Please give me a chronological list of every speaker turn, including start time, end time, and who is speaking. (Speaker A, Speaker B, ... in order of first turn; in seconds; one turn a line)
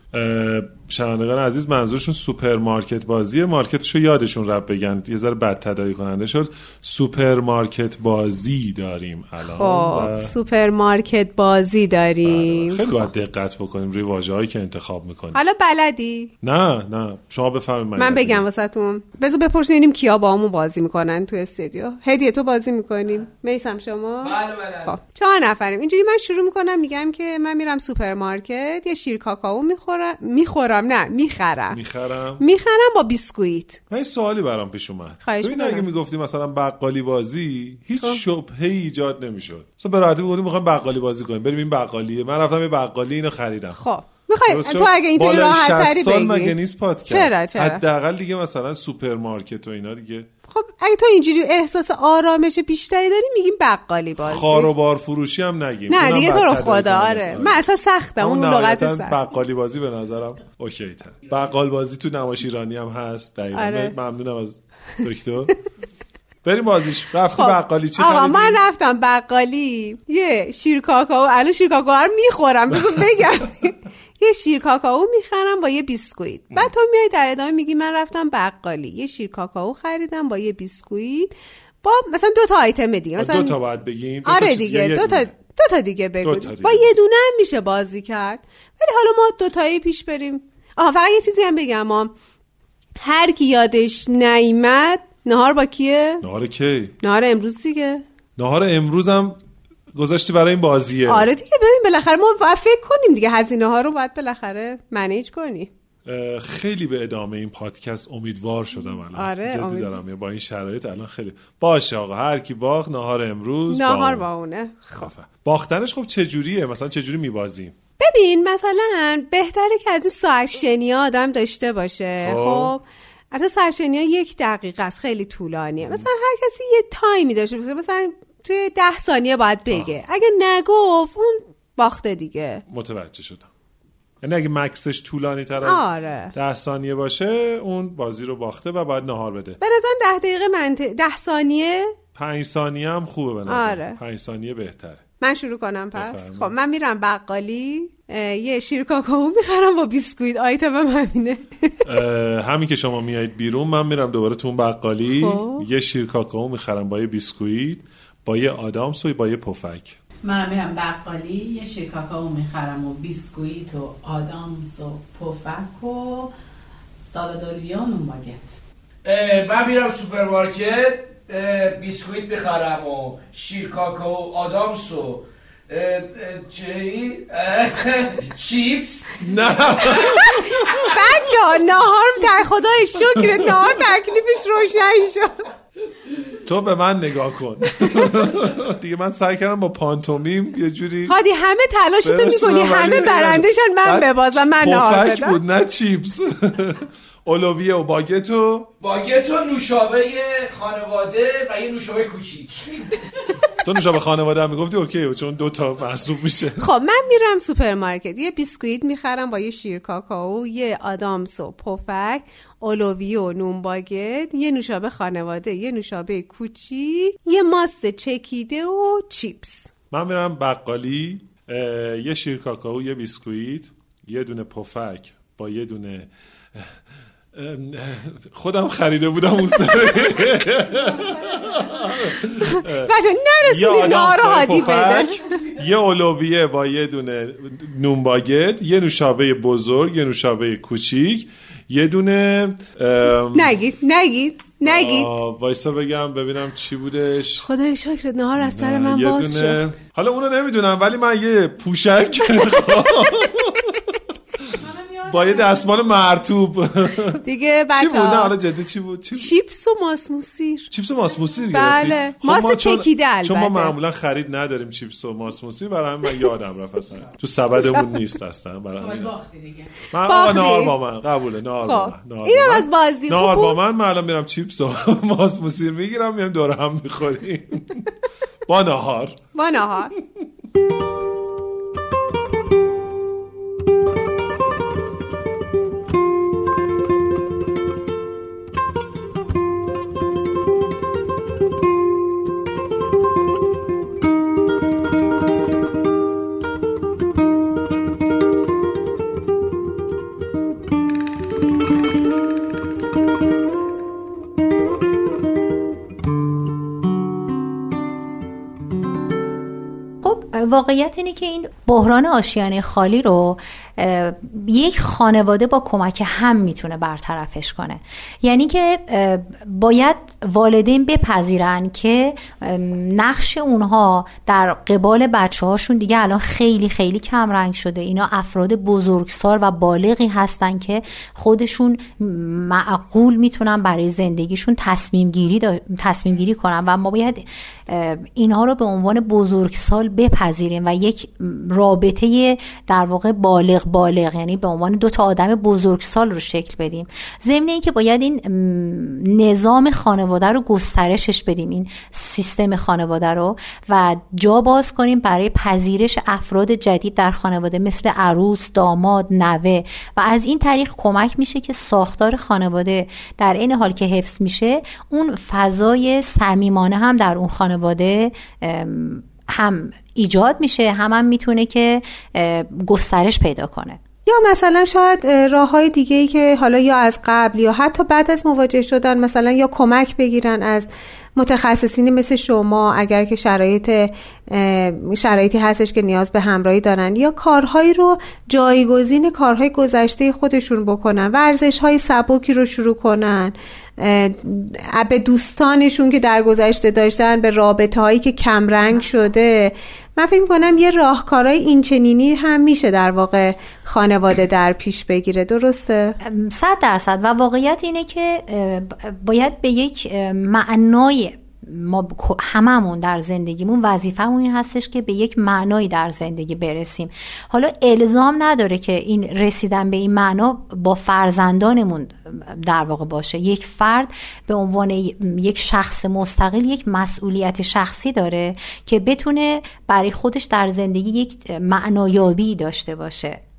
Speaker A: 0.1-10.3
Speaker B: 9.4-13.1
Speaker A: 12.2-15.4
Speaker B: 15.3-16.3
Speaker A: 16.4-18.4
Speaker B: 18.0-31.8
Speaker C: 24.2-25.0
Speaker A: 31.7-32.4
Speaker B: 32.4-33.8
Speaker A: 33.9-43.8
Speaker B: 35.2-35.9
Speaker B: 43.8-46.5
Speaker A: 44.5-50.3
Speaker B: 47.1-47.8
Speaker B: 50.5-54.7
Speaker A: 54.2-57.6
Speaker B: 55.9-59.2
Speaker A: 58.2-65.5
Speaker B: 63.5-63.9
Speaker A: 66.4-68.6
Speaker B: 67.3-83.6
Speaker A: 83.2-85.3
Speaker B: 84.2-92.1
Speaker A: 86.2-86.9
Speaker B: 93.0-96.2
Speaker A: 96.2-96.9
Speaker B: 97.0-98.0
Speaker A: 98.4-99.4
Speaker A: 99.9-101.3
Speaker B: 101.1-105.7
Speaker A: 106.0-114.3
Speaker B: 109.1-110.0
Speaker B: 113.7-115.1
Speaker A: 115.0-117.7
Speaker B: 118.0-132.6
Speaker A: 122.2-122.7
Speaker A: 132.7-133.5
Speaker A: 134.2-139.6
Speaker B: 135.6-136.3
Speaker B: 139.6-141.9
Speaker A: 142.1-145.0
Speaker B: 143.5-144.0
Speaker B: 145.2-151.7
Speaker A: 145.9-146.5
Speaker A: 151.8-160.0
Speaker B: 155.1-155.6
Speaker D: 160.2-166.3
Speaker D: 167.0-168.5
Speaker C: 169.0-179.2
Speaker A: 179.2-180.9
Speaker B: 180.8-185.4
Speaker A: 186.4-191.2
Speaker B: 191.1-195.4
Speaker A: 192.0-198.7
Speaker C: 198.8-202.8
Speaker A: 203.6-206.6
Speaker B: 206.6-219.7
Speaker A: 219.9-226.7
Speaker A: 227.3-232.9
Speaker B: 232.5-235.1
Speaker A: 233.4-243.6
Speaker B: 243.3-245.1
Speaker A: 244.6-247.5
Speaker B: 247.4-249.6
Speaker A: 248.4-253.9
Speaker D: 254.6-255.7
Speaker A: 255.1-257.2
Speaker B: 257.2-258.3
Speaker A: 257.7-259.3
Speaker B: 259.1-260.7
Speaker A: 260.7-269.2
Speaker B: 261.5-263.7
Speaker B: 267.6-267.8
Speaker D: 268.8-269.8
Speaker A: 269.9-277.8
Speaker B: 270.1-270.7
Speaker B: 271.6-273.6
Speaker A: 278.5-279.2
Speaker B: 279.3-279.9
Speaker E: 310.0-373.8
Speaker B: 374.1-405.9
Speaker E: 406.0-433.2